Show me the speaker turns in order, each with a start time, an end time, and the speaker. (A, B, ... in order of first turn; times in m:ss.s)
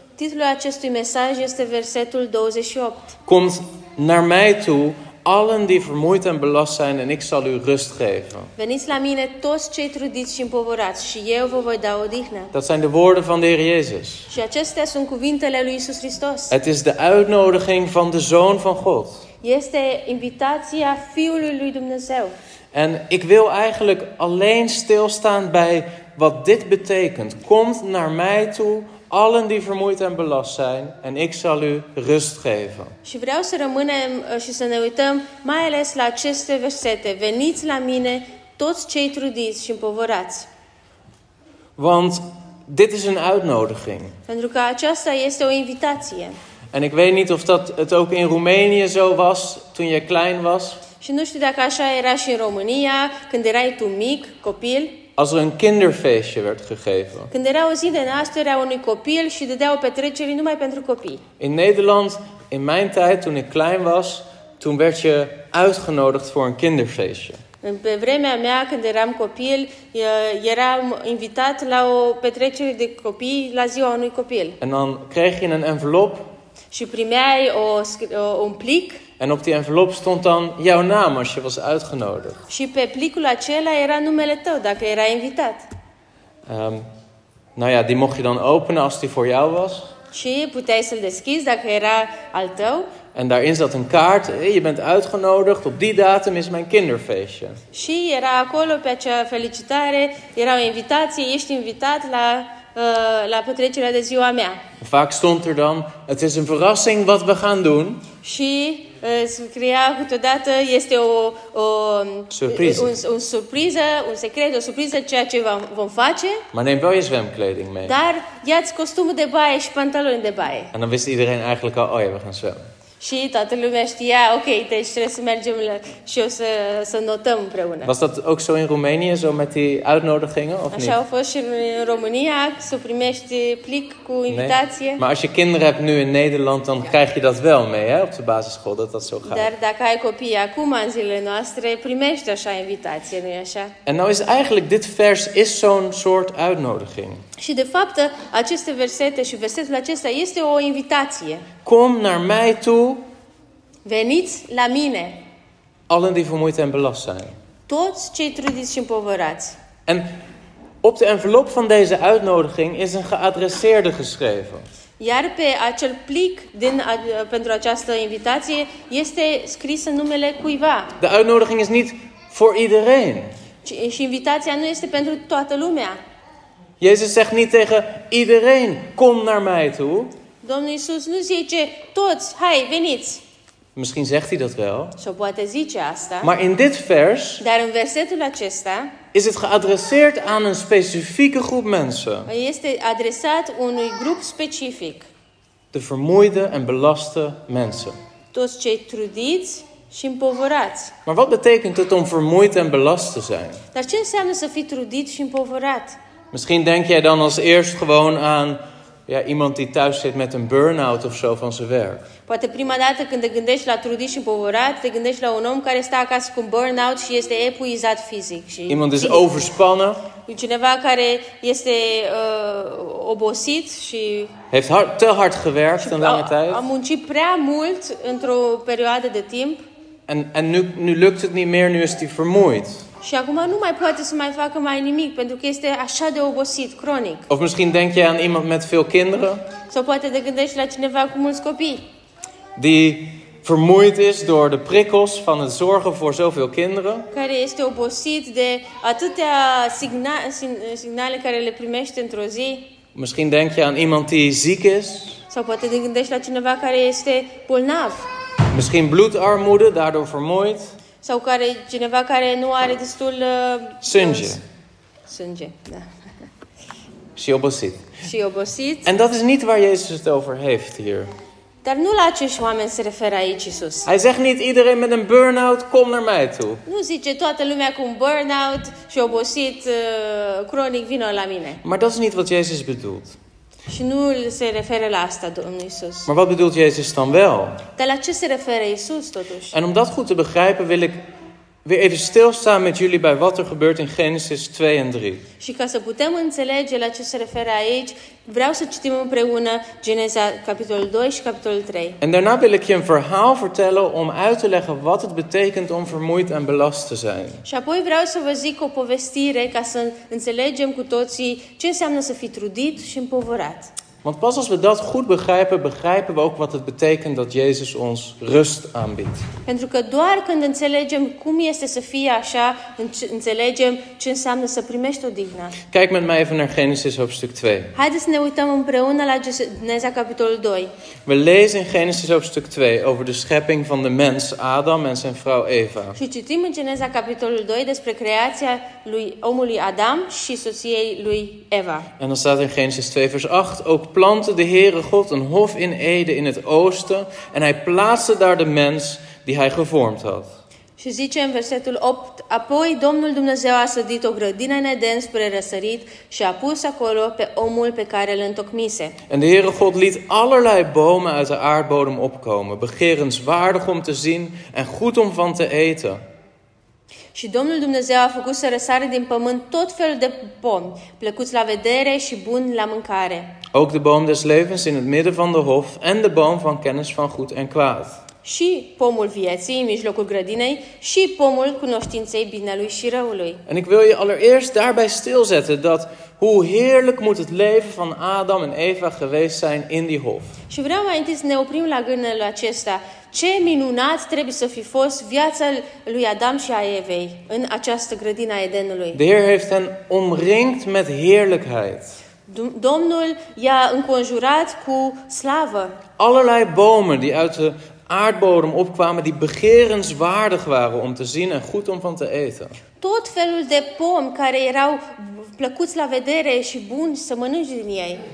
0:00.2-0:03.1 A
0:03.3-0:08.5 B
0:08.6-0:12.5 A
0:12.5-0:14.3 B
0:14.3-0:16.5 A
0:16.5-0:19.2 B
0:19.4-0:22.3 A
0:22.7-0:32.9 B
0:33.0-0:40.5 A
0:41.8-0:44.2 B
0:44.3-0:46.4 A
0:46.7-0:50.8 B
0:51.0-0:55.0 A
0:55.2-0:57.3 B
0:57.3-1:01.2 A
1:01.4-1:07.4 B
1:07.6-1:14.6 A
1:14.6-1:16.2 B
1:16.7-1:19.0 A
1:19.2-1:22.4 B
1:22.5-1:25.6 A
1:26.5-1:26.8 B
1:27.6-1:29.9 B
1:30.1-1:32.9 A
1:33.1-1:37.6 B
1:37.7-1:44.6 A
1:44.8-1:48.0 B
1:48.2-1:56.4 A
1:52.3-1:52.9 B
1:56.5-1:58.0 B
1:57.8-2:00.7 A
2:00.7-2:02.6 B
2:03.0-2:07.9 A
2:07.8-2:11.0 B
2:10.7-2:15.0 A
2:14.3-2:19.5 B
2:19.2-2:23.7 A
2:23.8-2:27.2 B
2:27.4-2:31.5 A
2:31.6-2:33.0 B
2:33.8-2:35.2 A
2:35.9-2:37.4 B
2:37.7-2:39.6 A
2:40.8-2:44.6 B
2:45.0-2:50.9 A
2:51.0-2:53.3 B
2:53.6-2:56.0 A
2:56.8-3:00.1 B
3:00.4-3:03.2 A
3:03.8-3:04.9 B
3:05.0-3:06.3 A
3:06.2-3:07.4 B
3:07.4-3:08.9 A
3:09.1-3:12.3 B
3:12.3-3:15.1 A
3:15.7-3:18.0 B
3:18.3-3:20.9 A
3:21.0-3:23.6 B
3:23.7-3:26.0 A
3:26.3-3:32.0 B
3:32.3-3:39.3 A
3:38.7-3:40.0 B
3:40.3-3:44.3 A
3:44.5-3:46.6 B
3:45.8-3:49.6 A
3:50.1-3:52.8 B
3:53.0-3:57.3 A
3:57.3-3:59.4 B
3:59.7-4:01.8 A
4:02.6-4:07.1 B
4:07.1-4:12.7 A
4:12.9-4:15.2 B
4:15.3-4:18.1 A
4:18.5-4:20.7 B
4:21.0-4:24.4 A
4:23.8-4:24.4 B
4:25.1-4:25.9 A
4:27.2-4:27.9 B
4:28.0-4:28.9 A
4:28.8-4:31.1 B
4:31.6-4:33.9 A
4:33.8-4:36.6 B
4:36.6-4:41.6 A
4:41.6-4:43.2 B
4:43.7-4:46.1 A
4:46.0-4:47.6 B
4:47.8-4:49.5 A
4:49.5-4:51.0 B
4:51.6-4:55.2 B
4:55.4-5:02.0 A
5:02.0-5:07.4 B
5:07.4-5:13.7 A
5:14.0-5:19.2 B
5:19.4-5:25.6 A
5:25.7-5:27.7 B
5:27.7-5:30.7 A
5:31.0-5:36.0 B
5:36.0-5:41.9 A
5:42.0-5:50.3 B
5:50.8-5:59.0 A
5:59.1-6:06.0 B
6:07.1-6:13.4 A
6:13.5-6:18.0 B
6:18.2-6:23.4 A
6:23.5-6:30.3 B
6:30.5-6:39.0 A
6:38.9-6:41.9 B
6:42.3-6:45.8 A
6:46.0-6:52.6 B
6:52.8-6:58.0 A